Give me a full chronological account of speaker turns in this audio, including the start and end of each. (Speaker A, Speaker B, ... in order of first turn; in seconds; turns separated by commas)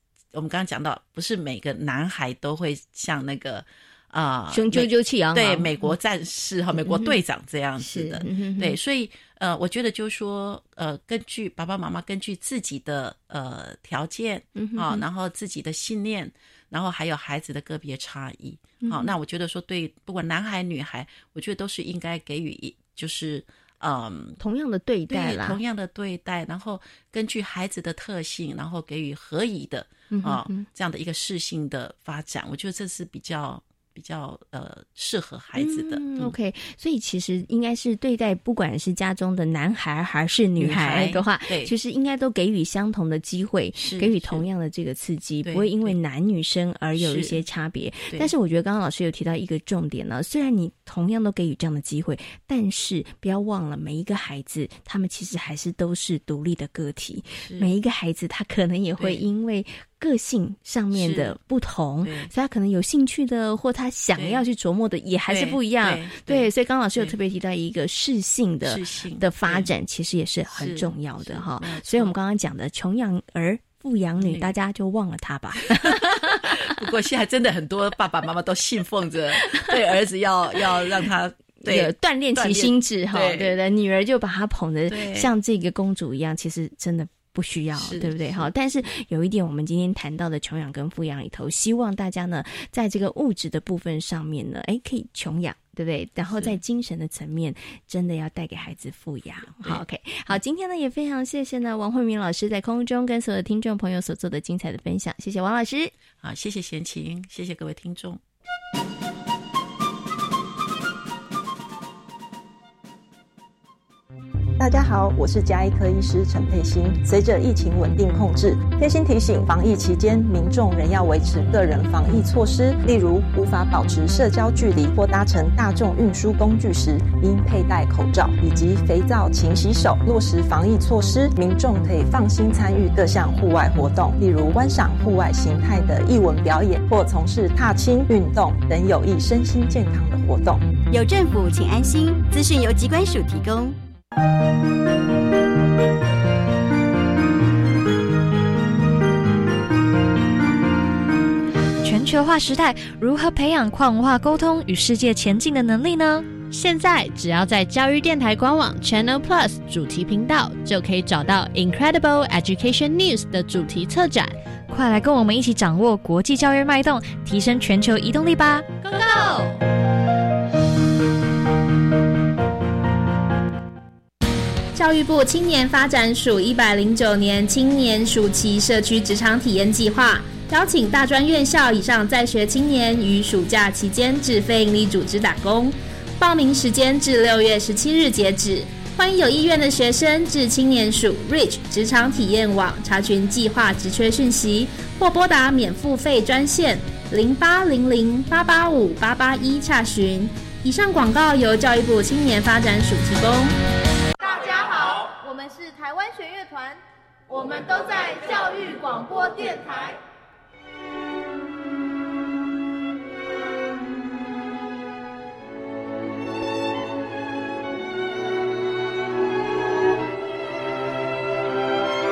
Speaker A: 0.3-24.4, Speaker B: 4.5-5.9, Speaker B: 6.8-7.1, Speaker B: 7.8-8.8, Speaker B: 14.6-15.0, Speaker B: 18.8-19.1, Speaker B: 24.4-25.6, Speaker A: 25.1-36.3, Speaker B: 30.1-30.7, Speaker B: 35.6-76.7, Speaker A: 40.6-41.7, Speaker A: 43.8-44.4, Speaker A: 45.4-46.0, Speaker A: 47.0-47.4, Speaker A: 57.4-57.7, Speaker A: 60.9-61.4, Speaker A: 62.0-62.3, Speaker A: 64.2-64.4, Speaker A: 65.3-67.2, Speaker A: 68.7-69.7, Speaker A: 70.5-72.2, Speaker A: 74.2-74.5, Speaker A: 75.7-83.6, Speaker B: 81.6-105.9, Speaker A: 84.9-85.3, Speaker A: 87.8-88.5, Speaker A: 106.2-108.2, Speaker C: 114.6-140.6, Speaker D: 140.9-143.8, Speaker E: 151.8-156.4, Speaker F: 156.5-164.3, Speaker E: 164.7-168.7, Speaker G: 174.7-203.6, Speaker H: 204.2-210.0